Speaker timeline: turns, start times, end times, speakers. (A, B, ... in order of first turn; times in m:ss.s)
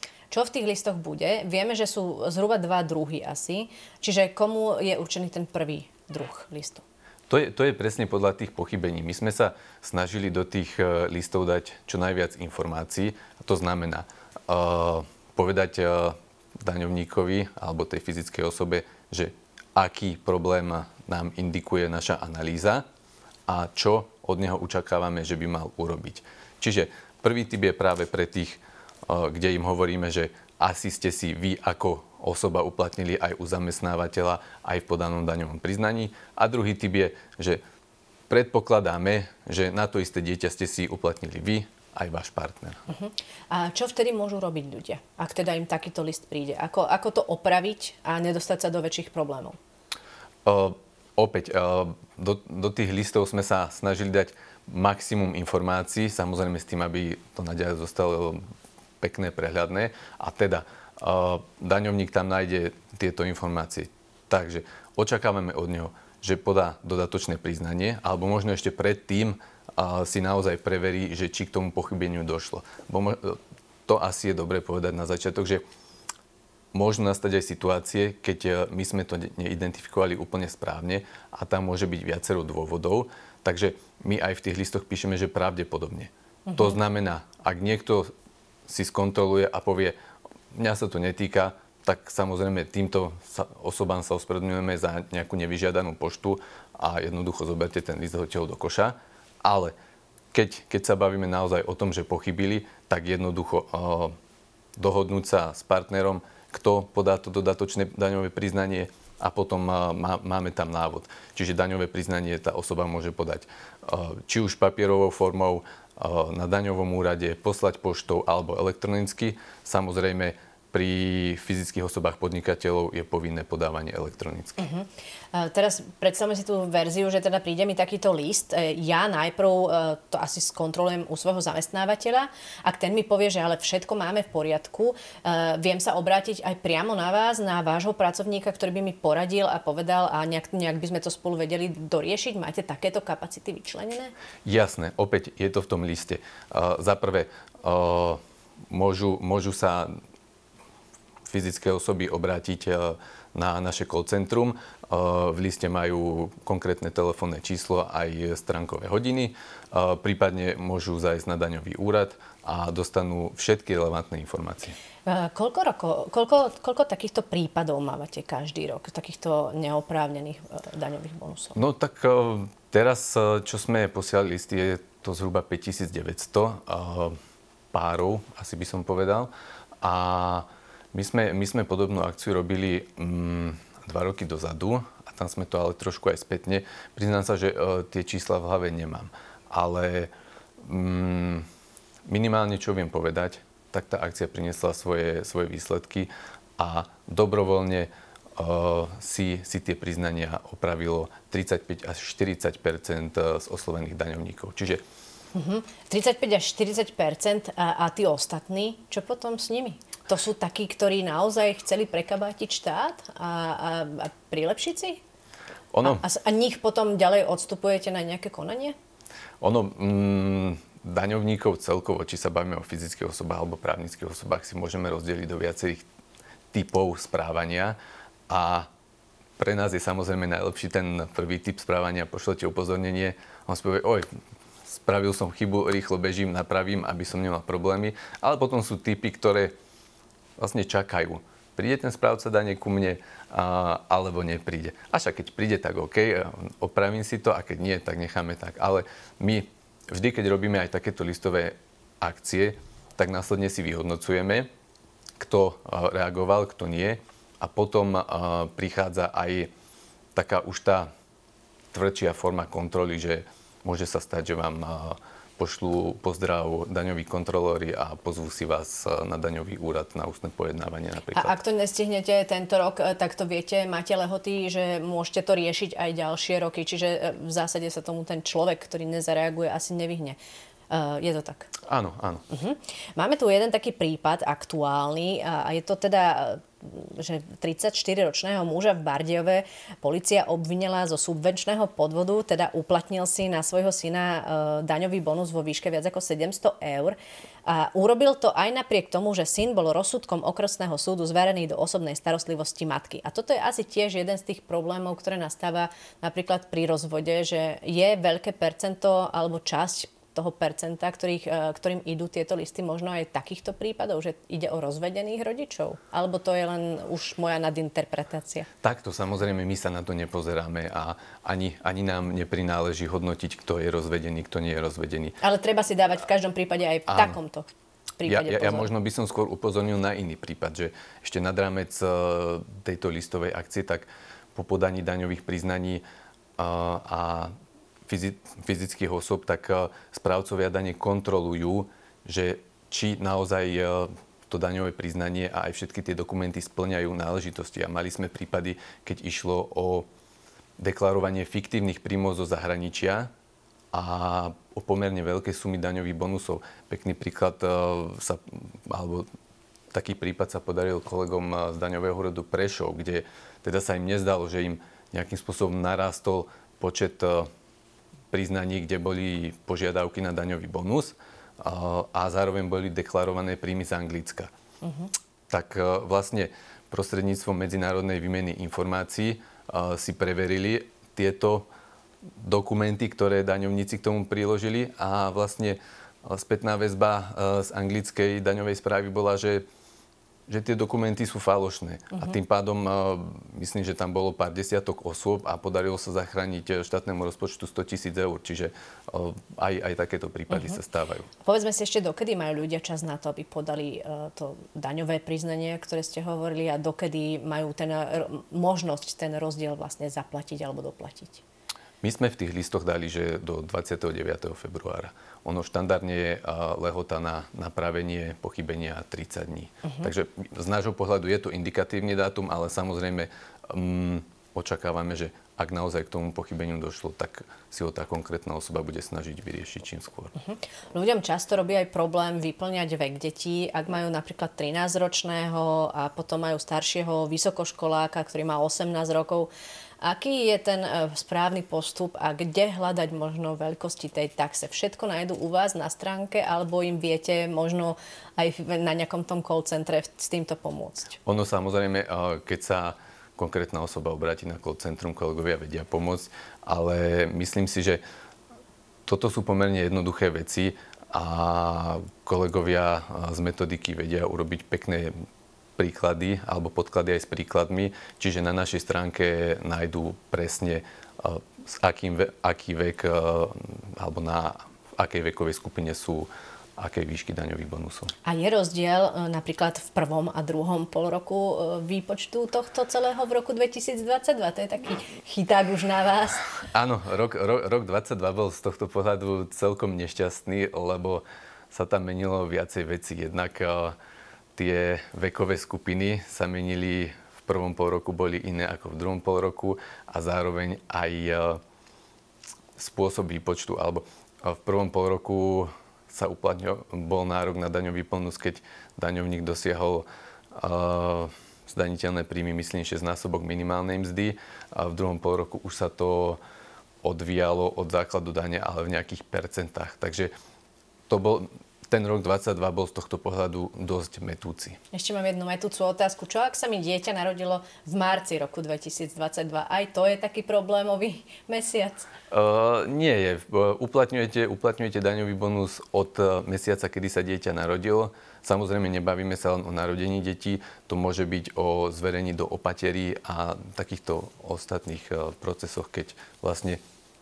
0:00.3-0:06.8 A
0:07.3-0:22.8 B
0:23.5-0:37.6 B
0:38.3-0:42.8 B
0:42.9-0:49.6 A
0:50.4-0:58.4 B
0:59.0-1:15.6 B
1:16.7-1:28.1 B
1:26.5-1:26.8 A
1:28.7-1:30.0 B
1:30.5-1:39.7 B
1:40.3-1:44.1 B
1:44.8-2:04.6 B
2:04.6-2:24.1 A
2:24.4-2:29.9 B
2:31.3-2:44.8 B
2:45.1-2:51.6 A
2:51.6-2:57.2 B
2:57.7-3:11.5 B
3:12.1-3:24.8 B
3:25.3-3:35.0 A
3:35.7-3:36.0 B
3:35.8-3:38.8 A
3:39.4-3:45.9 B
3:46.5-3:47.8 B
3:48.3-3:48.7 B
3:49.4-3:54.1 B
3:54.7-3:59.5 B
4:00.4-4:14.5 B
4:15.2-4:19.5 B
4:20.2-4:20.9 B
4:21.7-4:31.3 B
4:31.1-4:40.2 A
4:40.7-4:41.5 A
4:41.7-4:42.2 B
4:42.3-5:18.5 A
5:18.6-5:25.2 B
5:25.2-5:27.5 A
5:26.9-5:27.2 B
5:28.0-5:28.7 A
5:28.0-5:35.8 B
5:36.4-5:37.3 B
5:37.9-5:49.9 B
5:50.6-5:53.1 B
5:53.7-5:59.1 B
5:59.7-6:07.3 B
6:08.1-6:14.3 B
6:14.6-6:14.9 A
6:15.3-6:21.5 B
6:22.2-6:29.4 B
6:30.3-6:41.1 B
6:40.3-6:40.6 A
6:41.2-6:51.2 A
6:51.8-7:10.1 B
7:10.2-7:19.3 A
7:19.8-7:31.0 A
7:31.0-7:37.8 B
7:38.9-7:44.9 B
7:45.6-7:57.9 B
7:58.0-8:06.2 A
8:06.5-8:13.8 B
8:14.4-8:21.4 B
8:22.6-8:36.2 B
8:36.8-8:40.1 B
8:40.9-8:44.6 B
8:44.7-8:51.9 A
8:52.1-9:06.6 B